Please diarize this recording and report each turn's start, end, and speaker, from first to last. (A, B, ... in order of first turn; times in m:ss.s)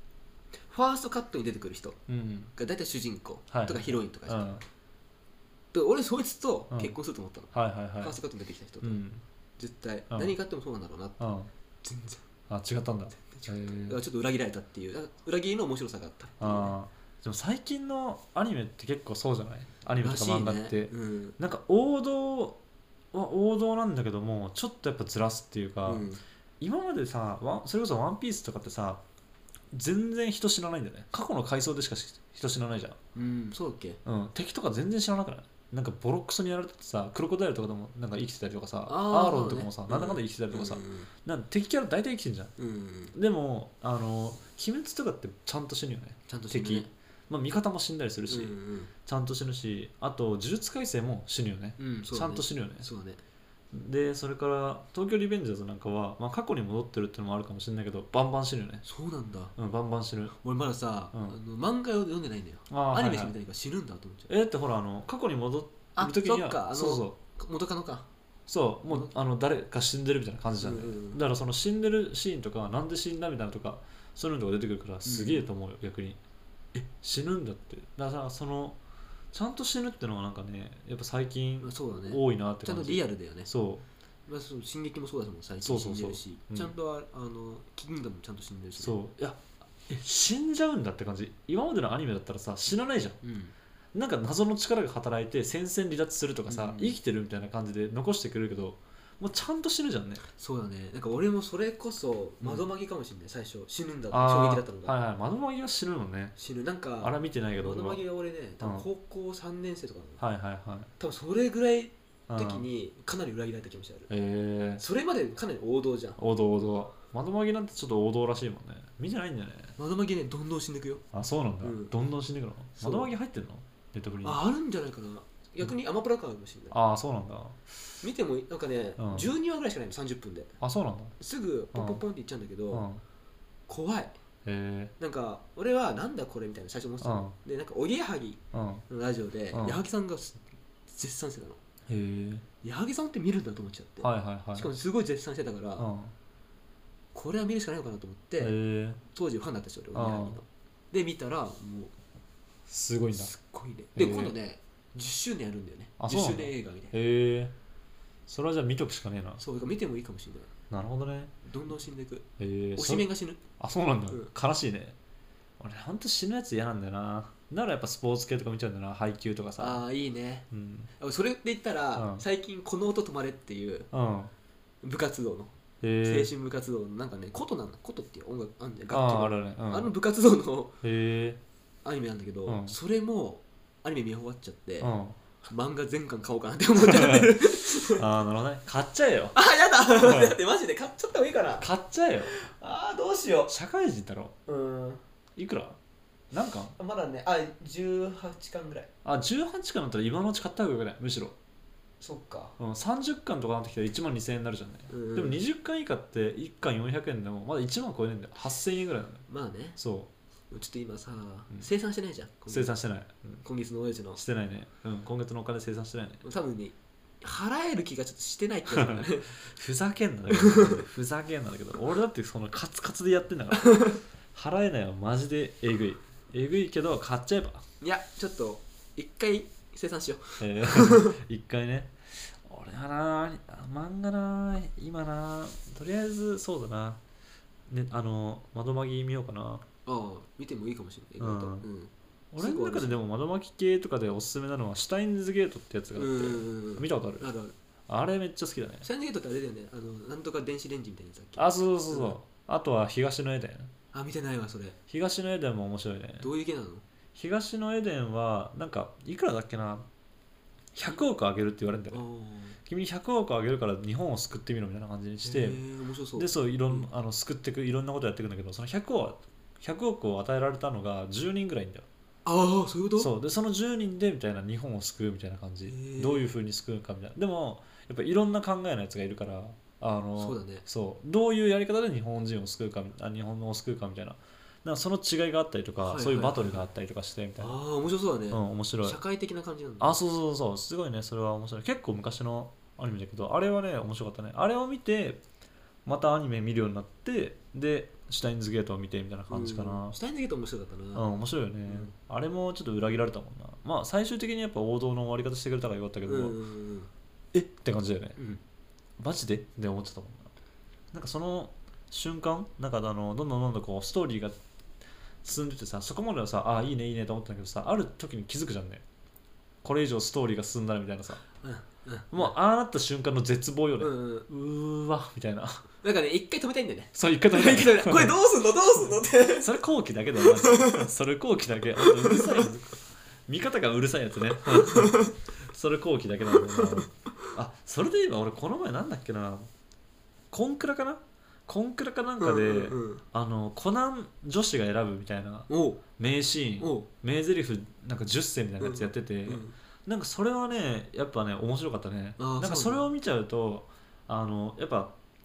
0:00.7-0:02.0 A
0:02.1-0:02.5 B
0:02.6-0:04.5 A
0:03.5-0:04.6 B
0:05.7-0:09.0 A
0:07.5-0:08.2 B
0:08.8-0:09.2 B
0:09.6-0:11.2 A
0:11.2-0:11.5 B
0:11.8-0:12.2 A
0:12.5-0:14.0 B
0:13.3-0:16.8 A
0:16.4-0:22.6 B
0:20.0-0:21.4 A
0:23.1-0:26.1 B
0:25.9-0:26.2 A
0:26.6-0:29.0 B
0:29.7-0:33.0 B
0:33.2-0:34.0 A
0:34.0-0:42.5 B
0:38.9-0:41.1 A
0:42.6-0:43.1 A
0:43.1-0:52.9 B
0:46.3-0:46.9 A
0:48.3-0:48.9 A
0:51.8-0:53.2 A
0:53.7-0:58.8 B
0:58.8-0:59.5 A
0:59.6-1:00.4 B
1:00.4-1:04.3 A
1:01.1-1:01.4 B
1:02.7-1:03.4 B
1:04.3-1:07.2 B
1:06.0-1:08.1 A
1:08.5-1:16.2 B
1:10.6-1:11.2 A
1:15.1-1:15.5 A
1:17.0-1:18.8 B
1:19.3-1:23.8 B
1:21.6-1:23.5 A
1:24.3-1:29.0 A
1:25.6-1:26.7 B
1:28.8-1:33.2 B
1:33.2-1:33.5 A
1:33.9-1:40.2 B
1:36.5-1:37.0 A
1:40.4-1:45.0 A
1:44.1-1:46.3 B
1:46.4-1:50.2 A
1:47.0-1:48.0 B
1:48.6-1:48.9 B
1:50.2-1:50.9 B
1:51.0-1:54.1 A
1:52.3-1:52.6 B
1:54.1-1:54.8 B
1:54.8-1:56.2 A
1:56.2-1:59.8 B
1:59.8-2:01.0 A
2:01.1-2:04.4 B
2:01.6-2:01.9 A
2:02.8-2:03.1 A
2:04.2-2:06.8 A
2:06.7-2:07.6 B
2:08.0-2:10.6 A
2:09.0-2:09.3 B
2:10.6-2:11.2 B
2:11.2-2:12.8 A
2:11.7-2:12.0 B
2:12.7-2:13.0 B
2:13.7-2:14.2 A
2:14.4-2:14.9 B
2:15.0-2:21.6 A
2:17.0-2:17.4 B
2:18.5-2:18.8 B
2:19.5-2:19.8 B
2:21.9-2:22.4 B
2:22.6-2:25.9 A
2:24.0-2:24.7 B
2:25.8-2:26.1 B
2:27.1-2:28.5 A
2:28.4-2:29.0 B
2:29.1-2:31.9 A
2:29.9-2:30.4 B
2:32.7-2:33.3 B
2:33.2-2:37.0 A
2:34.0-2:34.4 B
2:36.0-2:37.5 B
2:38.3-2:39.4 B
2:39.4-2:40.5 A
2:40.7-2:41.3 B
2:41.4-2:43.4 A
2:42.4-2:45.0 B
2:45.6-2:49.8 B
2:49.6-2:50.5 A
2:50.5-2:50.9 B
2:51.0-2:53.9 A
2:52.0-2:52.2 B
2:53.9-2:54.3 B
2:54.8-2:55.5 A
2:55.8-2:56.3 B
2:56.0-3:00.7 A
2:58.9-2:59.9 B
3:00.8-3:01.4 B
3:01.8-3:04.9 A
3:02.5-3:02.8 B
3:04.8-3:05.2 B
3:05.4-3:08.0 A
3:06.8-3:09.4 B
3:09.3-3:11.7 A
3:10.0-3:10.4 B
3:11.6-3:12.3 B
3:12.3-3:13.5 A
3:13.5-3:14.4 B
3:14.5-3:15.0 A
3:15.4-3:15.8 B
3:16.3-3:16.7 B
3:16.8-3:18.9 A
3:19.0-3:21.3 B
3:22.0-3:22.6 A
3:22.6-3:29.2 B
3:24.9-3:25.4 A
3:29.3-3:29.8 A
3:29.8-3:30.1 B
3:30.5-3:32.7 A
3:32.5-3:33.4 B
3:33.4-3:34.2 A
3:34.2-3:36.2 B
3:36.2-3:39.4 A
3:38.7-3:47.6 B
3:40.3-3:40.8 A
3:43.6-3:44.0 A
3:47.8-3:51.2 A
3:50.4-3:57.0 B
3:57.7-3:59.6 B
3:59.9-4:03.0 A
4:01.2-4:01.6 B
4:02.3-4:07.3 B
4:06.0-4:07.5 A
4:07.9-4:08.8 B
4:08.8-4:12.2 A
4:11.4-4:13.7 B
4:13.9-4:14.8 A
4:14.9-4:16.3 B
4:16.2-4:16.8 A
4:17.1-4:19.9 B
4:20.8-4:22.0 B
4:21.9-4:22.6 A
4:22.6-4:25.6 B
4:25.2-4:26.9 A
4:26.1-4:31.9 B
4:32.2-4:33.1 A
4:33.0-4:47.6 B
4:35.7-4:36.3 A
4:40.2-4:40.6 A
4:45.8-4:46.6 A
4:47.4-4:50.0 A
4:48.3-4:49.0 B
4:49.8-4:55.2 B
4:55.9-5:00.0 B
4:59.3-5:01.9 A
5:00.9-5:06.4 B
5:06.1-5:06.9 A
5:07.3-5:08.2 B
5:09.0-5:10.3 B
5:10.9-5:14.4 B
5:15.2-5:18.8 B
5:19.6-5:21.3 B
5:21.4-5:22.3 A
5:22.1-5:25.6 B
5:23.8-5:24.3 A
5:25.8-5:29.5 A
5:26.9-5:28.2 B
5:29.2-5:39.4 B
5:30.2-5:30.8 A
5:31.8-5:32.4 A
5:34.4-5:35.1 A
5:36.3-5:36.9 A
5:40.3-5:55.0 B
5:42.2-5:43.0 A
5:45.5-5:45.8 A
5:46.6-5:46.9 A
5:48.6-5:49.6 A
5:52.2-5:52.9 A